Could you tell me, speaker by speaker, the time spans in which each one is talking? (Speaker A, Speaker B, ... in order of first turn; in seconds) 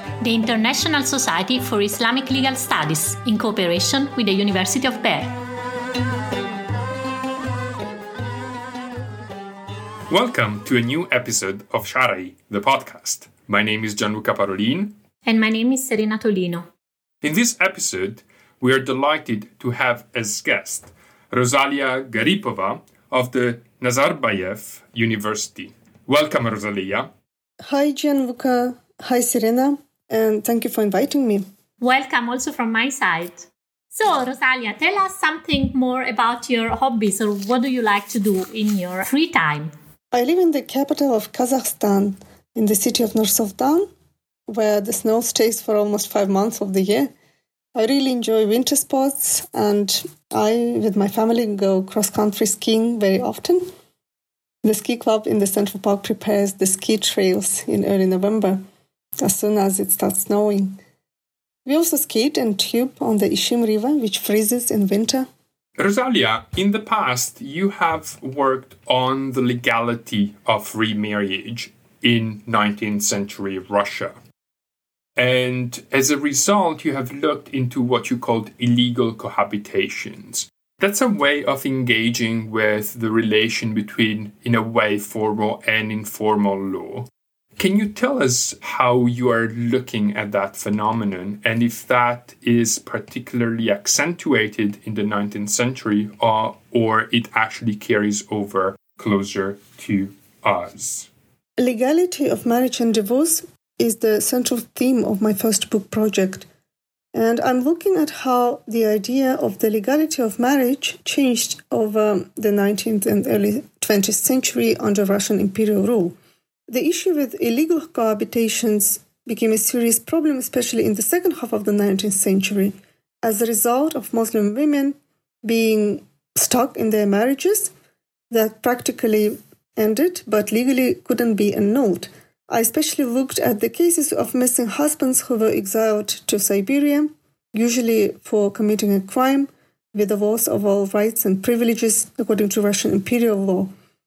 Speaker A: 0.2-5.4, 15.2-16.7, 31.8-39.7
Speaker B: 10.1-14.9, 17.2-27.1, 65.8-74.1, 75.2-101.1
Speaker C: 27.6-31.4, 40.1-43.9, 44.5-47.1, 47.7-53.6, 54.6-58.6, 59.2-60.8, 61.6-65.2, 101.6-106.5, 107.1-116.2, 116.7-127.7, 128.3-143.7